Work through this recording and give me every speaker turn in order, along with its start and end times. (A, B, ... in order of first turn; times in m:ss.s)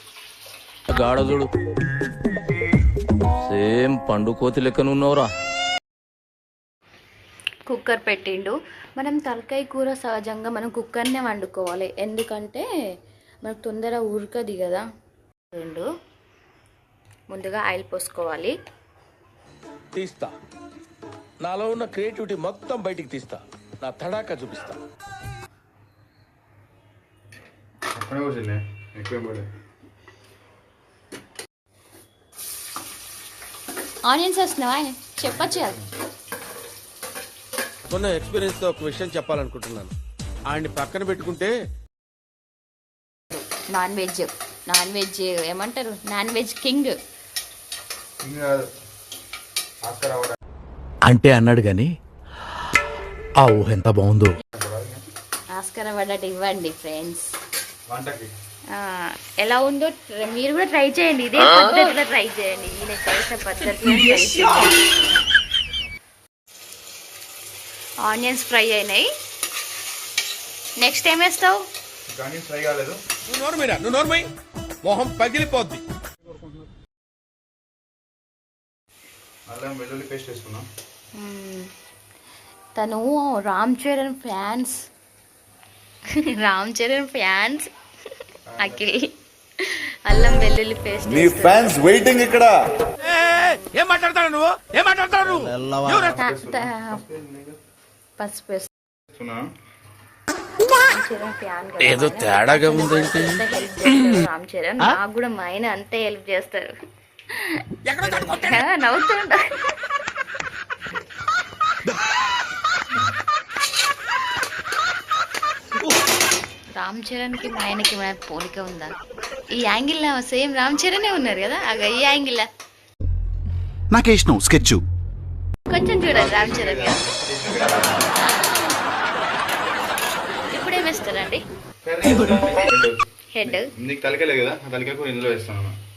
0:00.9-0:01.5 A
0:03.4-0:05.3 A
0:07.7-0:12.6 B
0:13.4-0:14.8 B
0:15.5-0:15.9 B
0:17.3-0:18.6 B
0:19.9-0:20.3 C
0:21.4-0:24.8 C
0:27.9-0:29.5 D
0:34.1-0:35.8 B
0:35.3-0:35.8 D
0:37.8-0:39.9 C
0:40.5-0:41.5 C
0:43.3-0:47.0 B
0:48.2-0:48.6 D
0:49.8-0:50.4 D
0:51.0-0:51.9 E
0:53.4-0:54.4 E
0:54.5-0:55.0 D
0:55.5-0:57.3 B
0:57.9-0:58.3 D
0:58.7-1:04.7 B
1:08.0-1:09.1 B
1:10.8-1:11.6 B
1:12.1-1:13.0 D
1:13.3-1:14.2 C
1:14.8-1:15.8 C
1:19.5-1:20.6 D
1:21.2-1:21.7 B
1:22.7-1:24.8 B
1:26.2-1:27.7 B
1:28.5-1:28.9 D
1:28.6-1:31.8 B
1:31.0-1:32.6 F
1:33.0-1:36.1 C
1:35.6-1:36.0 E
1:35.8-1:37.6 D
1:36.2-1:37.0 B
1:38.2-1:38.7 B
1:39.1-1:39.4 D
1:40.6-1:46.7 B
1:41.8-1:43.2 A
1:42.5-1:43.0 C
1:47.3-1:49.7 B
1:47.8-1:48.6 C
1:56.7-1:58.9 B
1:59.5-2:02.5 B
2:03.9-2:04.8 F
2:05.7-2:07.0 B
2:06.1-2:08.1 D
2:10.5-2:11.4 B
2:11.8-2:15.8 D
2:13.3-2:13.7 B